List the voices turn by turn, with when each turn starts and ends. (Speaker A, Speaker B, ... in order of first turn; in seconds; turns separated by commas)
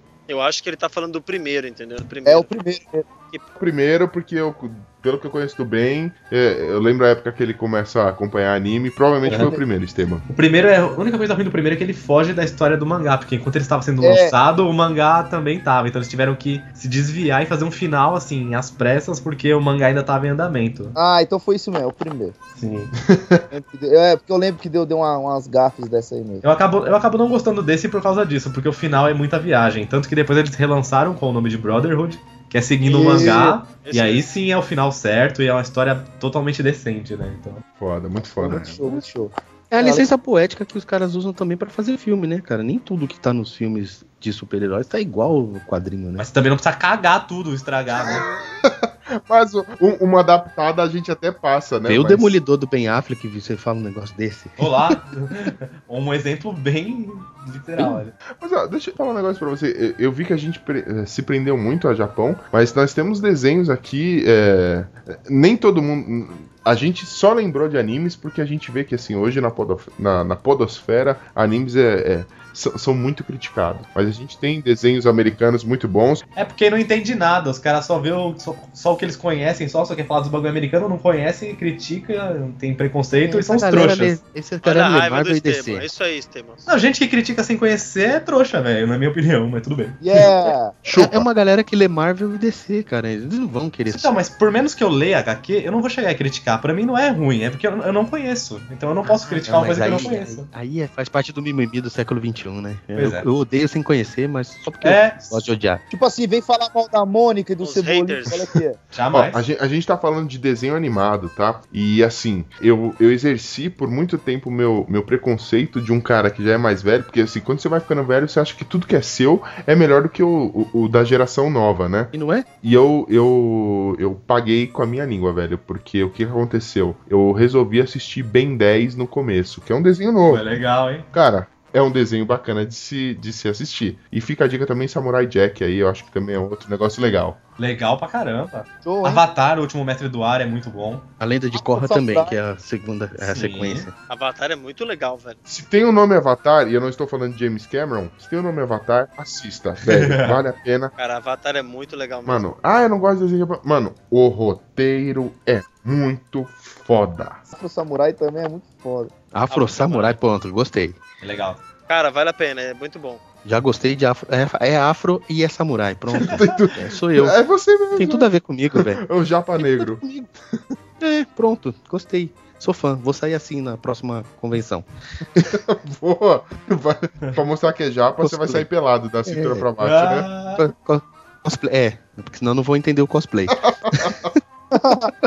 Speaker A: 0.3-2.5, Speaker B: 2.2-3.0, Speaker C: 3.6-10.2, Speaker B: 9.2-9.7, Speaker D: 10.3-20.9, Speaker B: 14.0-14.3, Speaker B: 20.9-22.3, Speaker D: 22.6-22.9, Speaker C: 23.0-23.5, Speaker B: 23.5-26.4, Speaker D: 26.4-37.6, Speaker B: 32.8-33.6, Speaker A: 33.8-34.2, Speaker C: 37.8-39.0, Speaker B: 38.4-40.1, Speaker E: 38.4-38.7, Speaker E: 39.7-46.3, Speaker D: 46.2-48.2, Speaker C: 48.6-52.4, Speaker E: 51.9-55.0, Speaker D: 54.6-58.1, Speaker C: 58.4-76.2, Speaker D: 76.3-84.2, Speaker E: 83.4-85.8, Speaker A: 84.6-86.7, Speaker D: 86.7-90.0, Speaker B: 90.0-90.8, Speaker C: 90.8-91.3, Speaker E: 90.9-94.1, Speaker D: 93.8-100.5, Speaker E: 99.3-105.8, Speaker D: 102.9-103.3, Speaker D: 104.8-105.4, Speaker B: 105.9-108.8, Speaker A: 107.6-108.3, Speaker D: 108.9-109.4, Speaker C: 109.1-130.4, Speaker E: 122.1-122.5, Speaker D: 130.2-131.1, Speaker C: 131.1-137.4, Speaker D: 137.6-141.1, Speaker B: 138.8-139.2, Speaker E: 141.2-143.9, Speaker B: 141.5-142.4, Speaker D: 143.2-143.9, Speaker A: 144.1-145.4, Speaker C: 145.5-150.9, Speaker D: 149.8-150.4, Speaker A: 151.0-152.5, Speaker C: 152.2-157.4, Speaker B: 157.5-159.1, Speaker E: 159.3-161.0, Speaker A: 159.5-160.1, Speaker D: 159.7-160.1, Speaker D: 161.2-161.6, Speaker A: 161.9-163.2, Speaker E: 163.4-167.3, Speaker D: 166.2-166.4, Speaker C: 166.2-170.0, Speaker E: 167.9-169.0, Speaker E: 169.6-170.3, Speaker E: 171.0-175.5, Speaker C: 175.4-180.3, Speaker E: 178.2-178.7, Speaker E: 179.2-179.7, Speaker D: 179.8-180.6, Speaker E: 180.6-184.3, Speaker C: 183.5-184.3, Speaker B: 184.7-185.1